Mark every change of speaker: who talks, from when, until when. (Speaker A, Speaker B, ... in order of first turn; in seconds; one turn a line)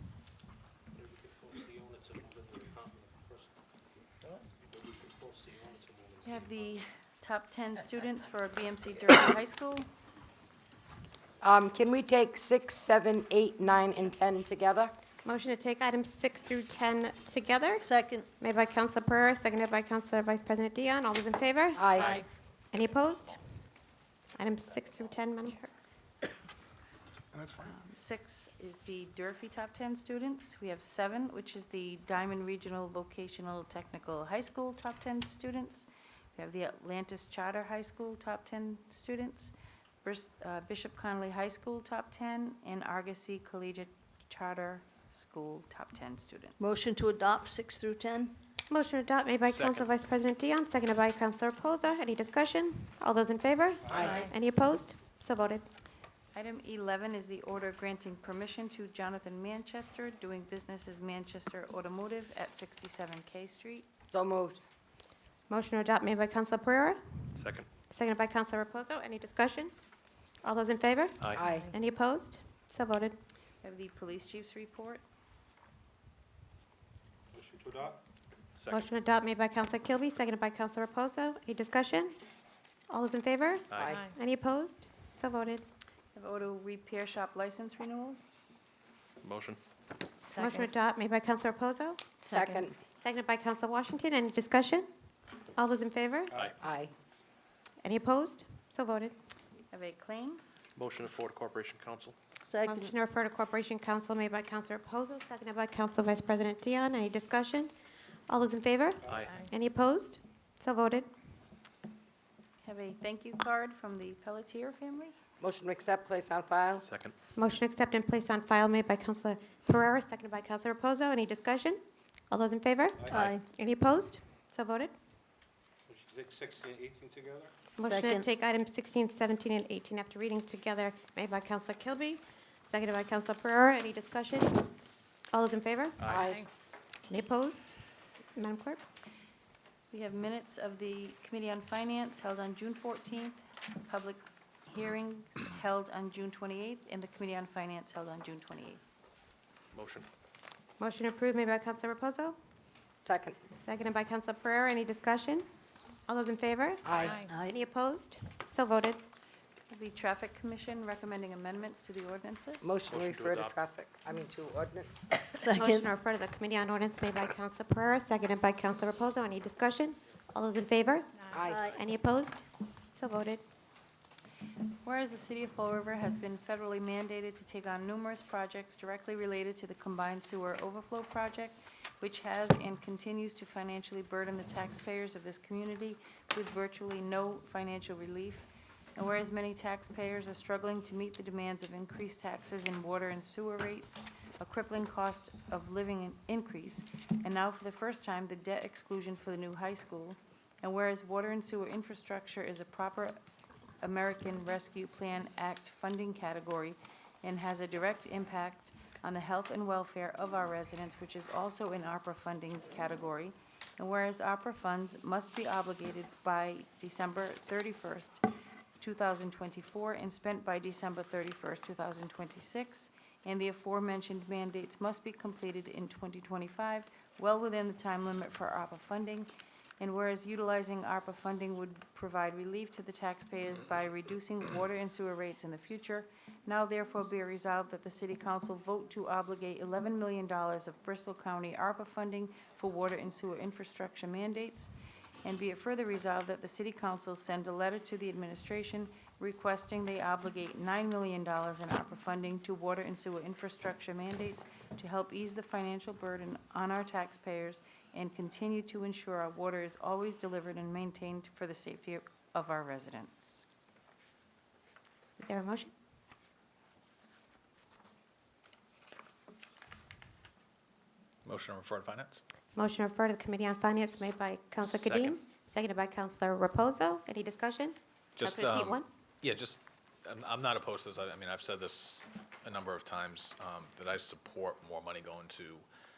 Speaker A: 0.9-3.5
Speaker A: 4.6-6.8
Speaker B: 6.2-9.9
Speaker C: 11.4-14.9
Speaker D: 15.2-23.4
Speaker E: 17.8-18.3
Speaker C: 21.8-22.2
Speaker E: 22.0-22.2
Speaker D: 24.4-25.7
Speaker B: 27.6-46.8
Speaker E: 46.6-48.3
Speaker D: 48.7-55.6
Speaker F: 49.5-49.9
Speaker C: 53.9-54.3
Speaker E: 54.0-54.3
Speaker B: 56.3-63.9
Speaker C: 64.1-64.6
Speaker D: 65.5-67.0
Speaker F: 67.3-67.7
Speaker D: 67.9-69.7
Speaker D: 70.4-73.2
Speaker C: 71.3-71.7
Speaker B: 73.6-75.0
Speaker A: 77.3-78.0
Speaker F: 78.5-78.9
Speaker D: 78.7-82.2
Speaker D: 82.9-85.6
Speaker F: 83.7-84.0
Speaker C: 83.8-84.1
Speaker B: 86.1-88.2
Speaker F: 89.2-89.6
Speaker E: 90.3-90.7
Speaker D: 90.3-92.0
Speaker B: 92.2-92.7
Speaker C: 92.3-92.7
Speaker D: 93.0-94.9
Speaker D: 95.5-96.3
Speaker C: 96.6-96.9
Speaker D: 97.8-99.1
Speaker B: 99.7-100.4
Speaker F: 100.8-102.2
Speaker E: 102.4-102.9
Speaker D: 102.6-107.7
Speaker D: 108.3-111.1
Speaker B: 112.6-115.1
Speaker C: 115.4-116.9
Speaker F: 116.7-117.1
Speaker D: 117.3-124.9
Speaker A: 123.0-123.3
Speaker E: 123.1-123.5
Speaker A: 125.9-127.5
Speaker D: 127.8-134.7
Speaker E: 127.8-128.3
Speaker D: 135.3-136.0
Speaker F: 136.0-136.2
Speaker C: 136.1-136.4
Speaker D: 137.1-137.7
Speaker D: 138.3-138.8
Speaker B: 139.9-148.8
Speaker F: 149.7-150.1
Speaker D: 150.8-152.3
Speaker C: 153.0-153.4
Speaker D: 153.6-155.4
Speaker D: 156.1-159.0
Speaker C: 156.8-157.2
Speaker E: 157.3-157.6
Speaker B: 159.7-162.7
Speaker C: 162.6-165.1
Speaker F: 162.8-163.6
Speaker E: 165.2-165.9
Speaker D: 165.5-173.4
Speaker C: 171.3-171.6
Speaker E: 171.4-171.8
Speaker B: 174.8-203.2
Speaker B: 203.8-244.7
Speaker B: 245.2-263.4
Speaker D: 265.2-265.7
Speaker G: 271.2-272.2
Speaker D: 272.5-278.9
Speaker G: 274.6-275.1
Speaker G: 278.2-285.6